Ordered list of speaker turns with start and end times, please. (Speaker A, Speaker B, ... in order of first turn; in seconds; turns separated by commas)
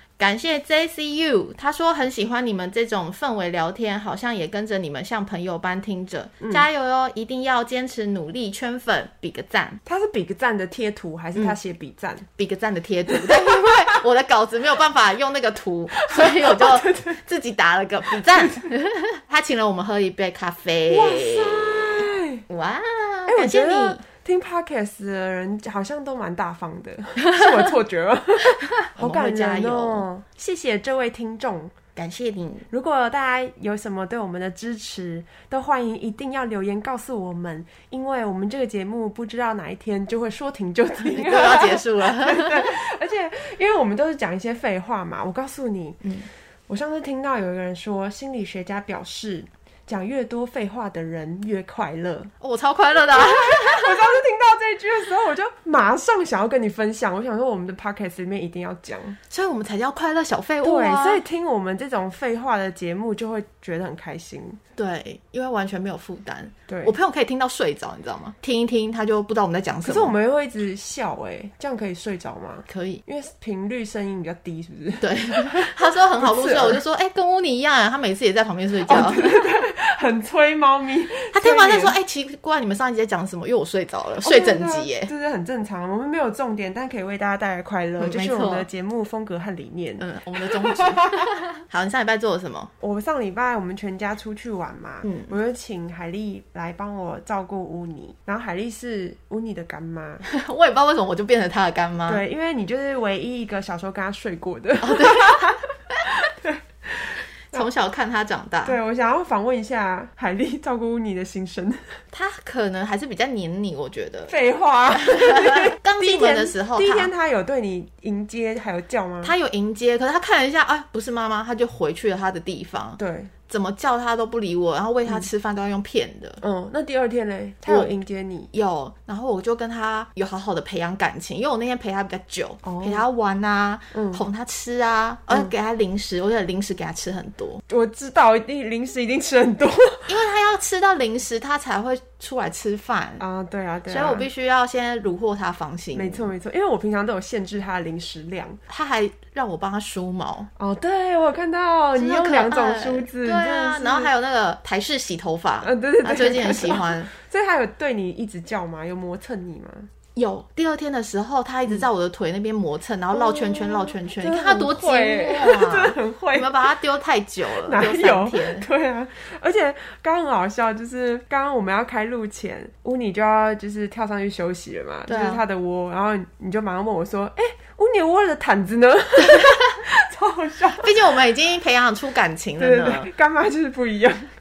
Speaker A: 0.2-9.8, Speaker B: 6.4-6.7, Speaker B: 9.8-12.2, Speaker A: 12.4-24.0, Speaker B: 13.1-13.8, Speaker B: 16.0-17.2, Speaker B: 18.2-18.7, Speaker B: 20.9-22.4, Speaker B: 23.3-31.7, Speaker A: 28.6-30.0, Speaker A: 31.9-32.7, Speaker B: 32.7-46.1, Speaker A: 41.1-42.8, Speaker B: 46.7-52.3, Speaker A: 52.4-54.1, Speaker B: 53.1-59.2, Speaker A: 59.3-61.2, Speaker B: 60.6-64.6, Speaker A: 64.8-70.1, Speaker B: 66.7-66.9, Speaker B: 69.8-76.8, Speaker A: 72.7-73.0, Speaker A: 75.0-79.3, Speaker B: 78.8-81.9, Speaker A: 81.3-85.1, Speaker B: 84.2-91.3, Speaker A: 88.0-88.7, Speaker A: 90.0-92.7, Speaker B: 92.8-100.2, Speaker A: 95.0-95.3, Speaker A: 100.2-102.2, Speaker B: 102.1-107.7, Speaker A: 104.8-106.1, Speaker A: 107.5-108.8, Speaker B: 108.6-112.0, Speaker A: 112.1-114.3, Speaker B: 114.3-119.3, Speaker A: 114.9-117.1, Speaker A: 119.2-126.4, Speaker B: 123.0-123.3, Speaker B: 126.4-128.5, Speaker A: 127.7-127.9, Speaker A: 128.5-137.6, Speaker B: 132.6-133.0, Speaker B: 133.9-134.2, Speaker B: 137.7-140.1, Speaker A: 140.1-143.2, Speaker B: 143.2-144.3, Speaker A: 143.9-146.2, Speaker B: 145.9-148.6, Speaker A: 148.7-150.5, Speaker B: 150.6-154.1, Speaker A: 151.9-157.1, Speaker B: 155.6-159.9, Speaker A: 160.1-168.7, Speaker B: 163.1-166.7, Speaker B: 167.6-181.0, Speaker A: 175.1-175.4, Speaker A: 179.2-179.8, Speaker A: 180.8-183.1, Speaker B: 182.6-184.3